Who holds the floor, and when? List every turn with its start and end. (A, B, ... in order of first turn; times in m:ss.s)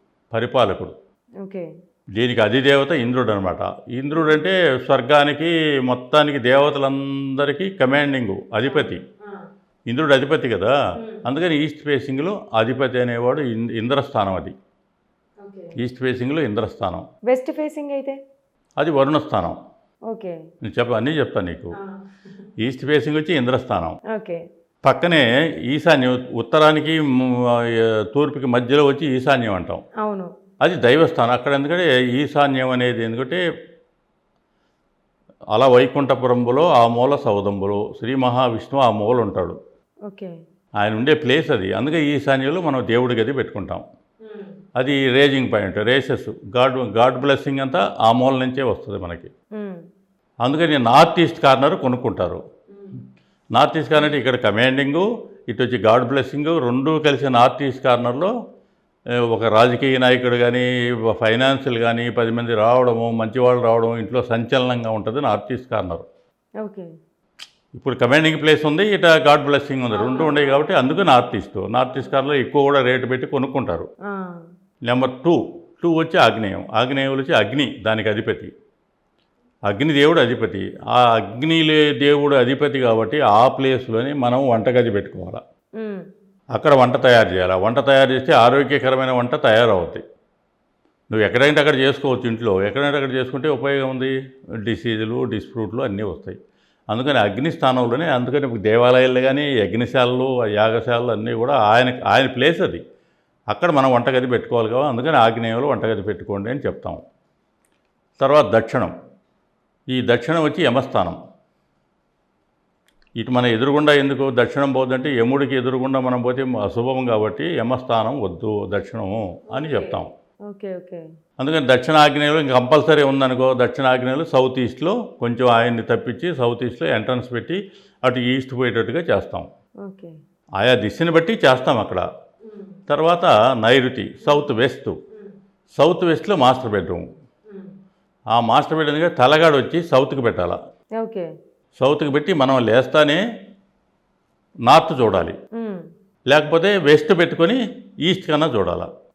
0:00.3-0:01.0 A
0:02.2-0:09.0 A
0:08.6-0:09.1 B
0:09.9-0:14.6 A
0:11.0-0:11.2 B
0:15.4-0:15.8 B
0:15.8-0:17.0 A
0:17.3-0:18.2 B
0:18.8-0:19.6 A
0:20.1-0:20.4 B
0:20.6-0:21.8 A
0:21.8-0:22.2 B
0:22.6-0:24.0 A
0:24.1-0:24.4 B
0:24.8-0:29.8 A
0:30.0-0:30.3 B
0:30.6-0:33.4 A
0:35.5-0:39.6 A
0:40.1-0:40.3 B
0:40.8-0:43.8 A
0:44.2-0:44.6 B
0:44.8-0:49.3 A
0:50.4-0:52.4 A
0:52.7-0:53.0 B
0:53.6-0:58.3 A
0:59.3-1:06.0 A
1:06.6-1:06.9 B
1:07.7-1:13.9 A
1:09.9-1:10.6 B
1:14.9-1:18.5 A
1:19.7-1:25.4 A
1:25.8-1:26.0 B
1:26.6-1:30.0 A
1:31.1-1:34.1 A
1:34.6-1:36.4 A
1:36.9-1:42.8 A
1:43.5-1:47.0 A
1:48.2-1:48.9 A
1:49.9-1:51.2 A
1:53.2-2:00.1 A
1:59.5-2:00.0 B
2:00.5-2:01.0 B
2:01.4-2:09.5 A
2:09.8-2:10.2 B
2:10.6-2:12.0 A
2:12.4-2:12.8 B
2:12.9-2:15.0 A
2:14.2-2:14.6 B
2:15.8-2:17.1 A
2:18.3-2:20.6 A
2:21.0-2:21.3 B
2:21.8-2:23.2 A
2:24.7-2:25.4 A
2:25.6-2:25.8 B
2:26.3-2:28.9 A